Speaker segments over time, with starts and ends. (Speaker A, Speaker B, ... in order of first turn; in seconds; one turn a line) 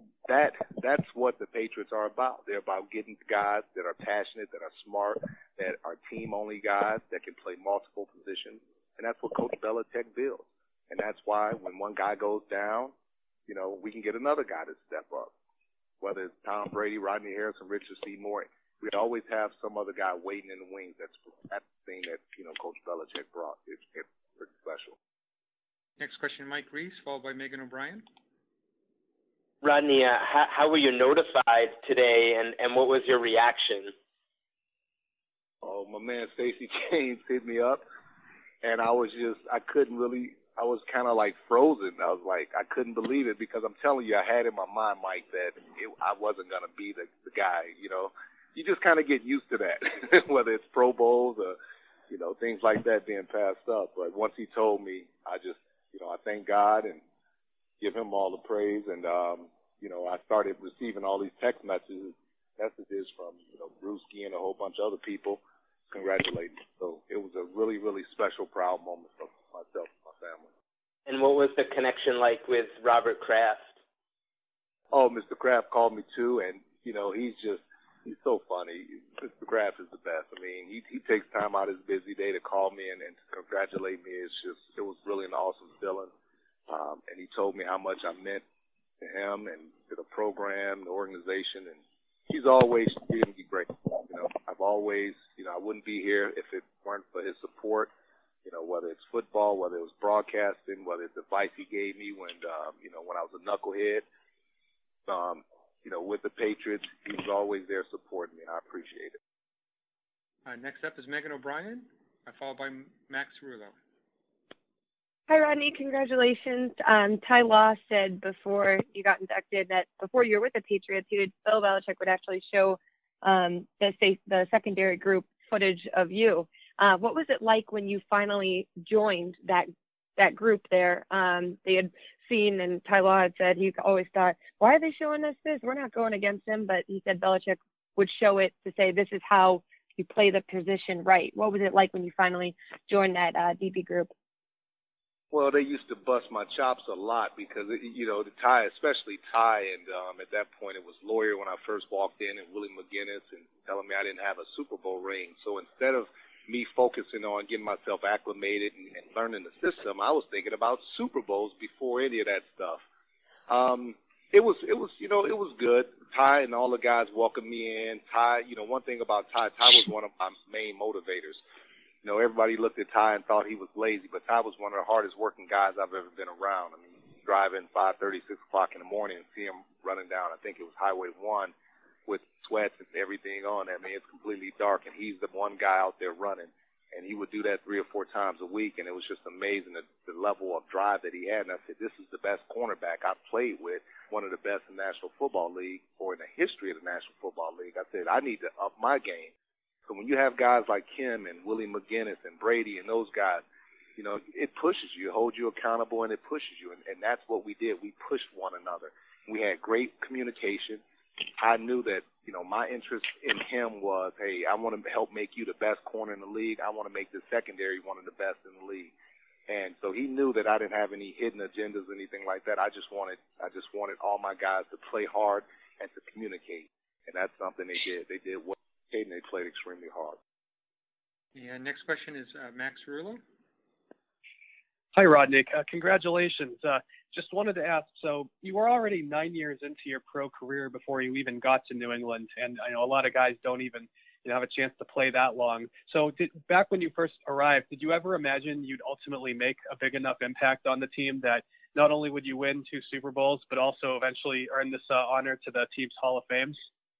Speaker A: 0.2-12.9
Speaker A: 13.5-15.3
Speaker A: 16.0-24.9
Speaker B: 26.0-28.1
Speaker C: 29.6-33.9
Speaker A: 35.6-37.8
Speaker A: 38.6-51.5
Speaker A: 52.1-57.0
Speaker A: 57.8-70.5
Speaker C: 71.1-73.7
Speaker A: 74.9-86.1
Speaker A: 86.7-88.4
Speaker A: 89.0-97.9
Speaker A: 98.4-104.0
Speaker A: 105.1-109.2
Speaker B: 110.4-113.7
Speaker D: 115.3-144.1
Speaker A: 145.3-162.8
Speaker A: 163.5-171.4
Speaker A: 172.0-181.5
Speaker A: 182.1-199.3
Speaker A: 199.9-203.4
Speaker A: 204.0-210.8
Speaker A: 211.4-218.9
Speaker A: 219.5-230.2
Speaker B: 231.3-233.2
Speaker E: 234.9-256.6